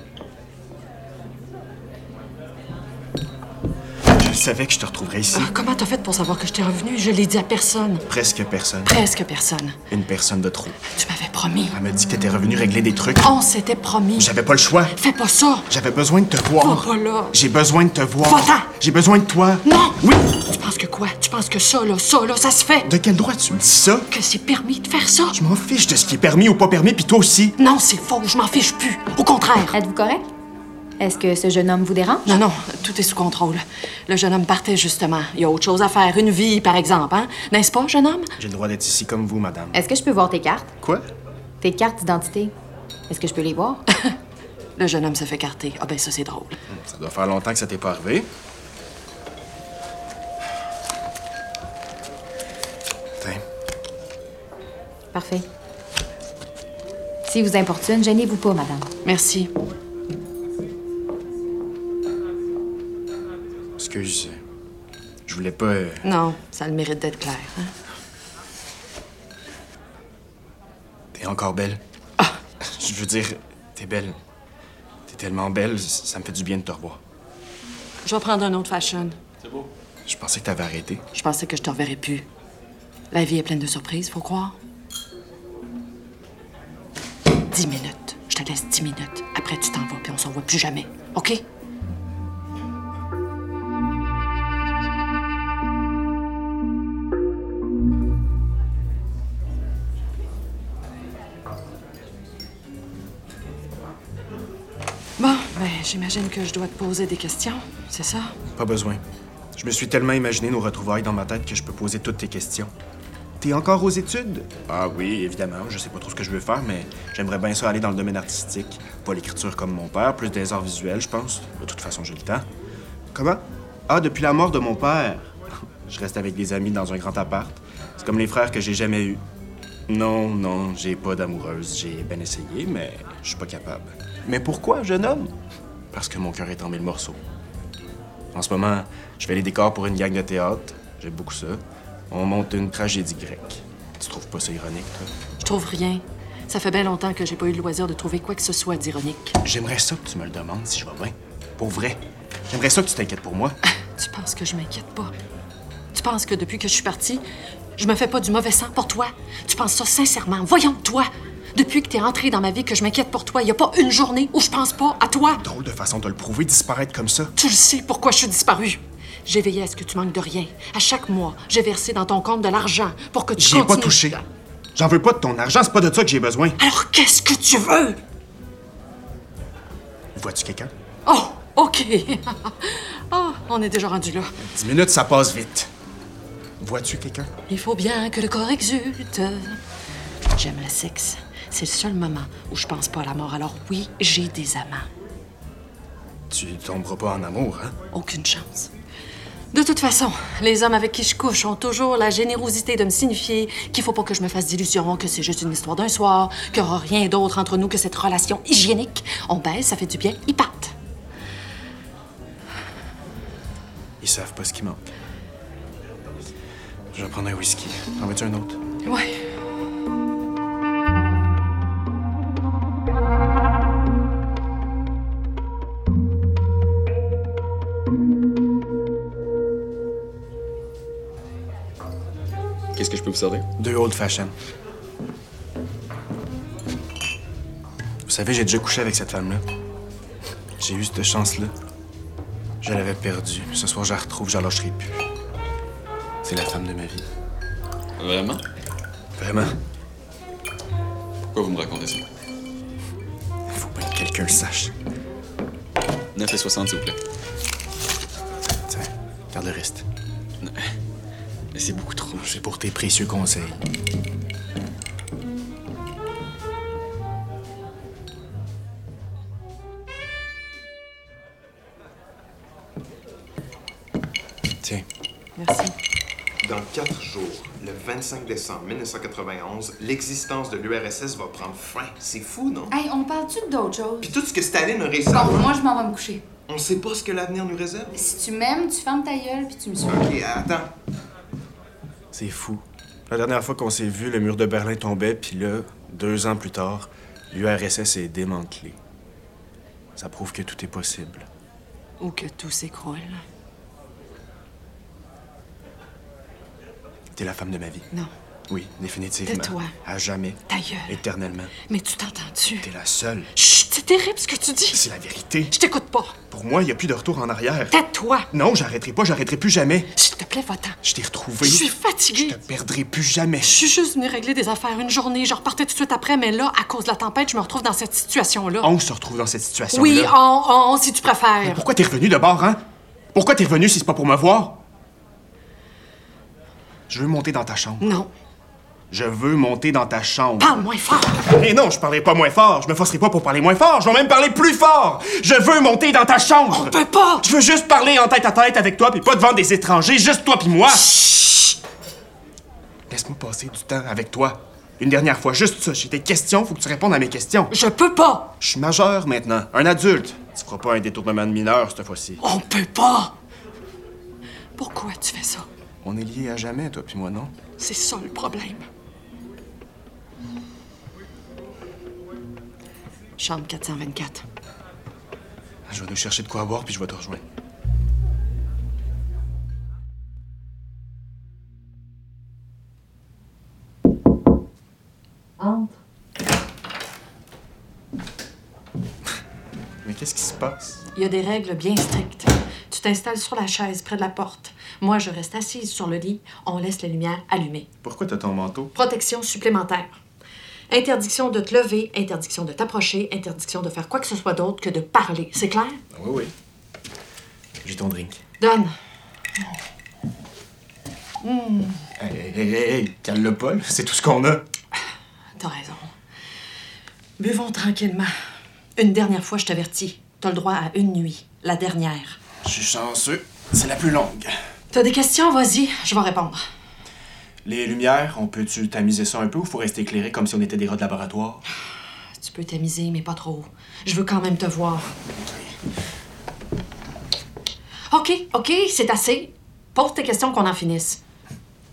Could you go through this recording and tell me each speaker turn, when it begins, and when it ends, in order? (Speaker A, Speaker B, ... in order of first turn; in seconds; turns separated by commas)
Speaker A: 4.1-5.5, Speaker B: 5.3-8.0, Speaker A: 8.1-9.0, Speaker B: 8.8-9.8, Speaker A: 9.9-10.8, Speaker B: 10.8-11.8, Speaker A: 11.7-13.3, Speaker B: 13.2-14.3, Speaker A: 14.2-15.0, Speaker B: 14.9-15.7, Speaker A: 15.7-20.2, Speaker B: 16.6-17.4, Speaker B: 18.2-18.7, Speaker B: 19.6-22.9, Speaker A: 22.8-24.1, Speaker B: 24.1-25.4, Speaker A: 25.3-27.6, Speaker B: 27.6-29.8, Speaker C: 29.7-30.2, Speaker C: 31.0-32.4, Speaker B: 32.2-38.3, Speaker A: 38.4-39.8, Speaker C: 39.7-40.7, Speaker A: 40.8-41.0, Speaker C: 41.6-42.5, Speaker C: 43.1-43.8, Speaker B: 44.8-46.6, Speaker A: 46.7-48.3, Speaker A: 53.2-53.4, Speaker C: 55.1-55.5, Speaker C: 57.2-58.9, Speaker B: 59.0-59.5, Speaker A: 63.8-64.4, Speaker A: 65.2-66.0, Speaker B: 66.0-67.7, Speaker A: 71.1-71.8, Speaker A: 72.6-74.2, Speaker A: 75.1-77.0, Speaker B: 78.0-79.2, Speaker A: 80.0-81.0, Speaker B: 81.1-82.2, Speaker B: 83.1-84.5, Speaker B: 87.5-91.4, Speaker B: 105.2-108.3, Speaker A: 108.5-109.0, Speaker A: 109.5-112.7, Speaker A: 113.4-122.5, Speaker A: 123.1-129.2, Speaker A: 129.9-135.3, Speaker A: 135.9-137.2, Speaker A: 138.3-145.1, Speaker B: 145.4-149.4, Speaker A: 149.4-153.6, Speaker B: 153.9-155.1, Speaker B: 155.9-157.2, Speaker B: 157.8-165.4, Speaker A: 165.4-167.3, Speaker B: 167.3-174.2, Speaker A: 173.4-174.2, Speaker A: 174.7-176.6, Speaker B: 176.6-178.0, Speaker A: 180.1-180.7, Speaker B: 181.1-184.4, Speaker A: 184.4-185.7, Speaker A: 186.6-187.3, Speaker B: 187.5-189.6, Speaker B: 190.3-194.9, Speaker A: 196.3-197.8, Speaker B: 197.9-198.7, Speaker B: 199.5-210.7, Speaker A: 214.0-214.9, Speaker A: 216.9-218.6, Speaker B: 218.8-219.1, Speaker D: 232.7-233.4, Speaker A: 233.6-234.3, Speaker A: 238.1-239.4, Speaker A: 240.6-241.5, Speaker A: 242.6-245.0, Speaker A: 246.2-247.1, Speaker D: 248.0-248.4, Speaker A: 249.2-249.6, Speaker D: 251.3-252.0, Speaker A: 253.5-254.7, Speaker D: 256.1-257.0, Speaker A: 258.6-259.9, Speaker D: 260.4-260.7, Speaker D: 261.5-262.2, Speaker A: 262.1-263.6, Speaker A: 274.6-274.9, Speaker B: 275.4-275.7, Speaker E: 276.4-282.7, Speaker F: 282.7-284.1, Speaker E: 284.0-285.6, Speaker F: 285.1-286.2, Speaker E: 286.5-287.9, Speaker F: 287.9-290.0, Speaker E: 289.8-290.7, Speaker A: 292.1-298.8, Speaker A: 299.9-301.3, Speaker B: 302.0-303.2, Speaker A: 307.1-307.9, Speaker A: 308.5-311.5, Speaker B: 309.2-309.7, Speaker B: 310.5-311.0, Speaker B: 311.7-312.7, Speaker A: 312.6-313.3, Speaker B: 313.3-314.8, Speaker A: 314.7-315.5, Speaker B: 315.5-316.2, Speaker A: 316.3-317.8, Speaker B: 317.7-318.3, Speaker A: 318.3-319.9, Speaker B: 319.9-320.8, Speaker A: 320.8-323.6, Speaker B: 321.4-322.4, Speaker B: 323.4-328.7, Speaker A: 328.6-330.1, Speaker B: 329.7-331.6, Speaker A: 331.4-332.6, Speaker A: 333.1-334.6, Speaker A: 336.9-337.9, Speaker B: 337.8-338.1, Speaker A: 338.9-340.6, Speaker B: 340.4-341.2, Speaker A: 341.1-350.9, Speaker B: 346.5-347.2, Speaker B: 350.7-351.6, Speaker A: 352.9-357.5, Speaker B: 357.5-358.3, Speaker A: 358.4-362.2, Speaker B: 362.2-363.1, Speaker B: 364.6-365.5, Speaker A: 365.8-367.4, Speaker B: 367.6-368.6, Speaker B: 373.2-374.2, Speaker A: 375.7-377.2, Speaker B: 385.4-385.8, Speaker A: 389.8-390.8, Speaker B: 390.9-397.7, Speaker A: 397.8-398.7, Speaker B: 398.7-400.0, Speaker B: 400.7-405.8, Speaker A: 405.9-406.3, Speaker A: 407.6-408.2, Speaker B: 408.4-408.7, Speaker B: 411.2-411.8, Speaker A: 412.0-414.4, Speaker B: 415.4-415.9, Speaker B: 417.2-418.1, Speaker B: 418.8-422.2, Speaker A: 422.4-424.4, Speaker B: 424.7-426.4, Speaker A: 427.4-431.4, Speaker B: 432.2-434.9, Speaker A: 435.2-435.6, Speaker B: 437.9-441.0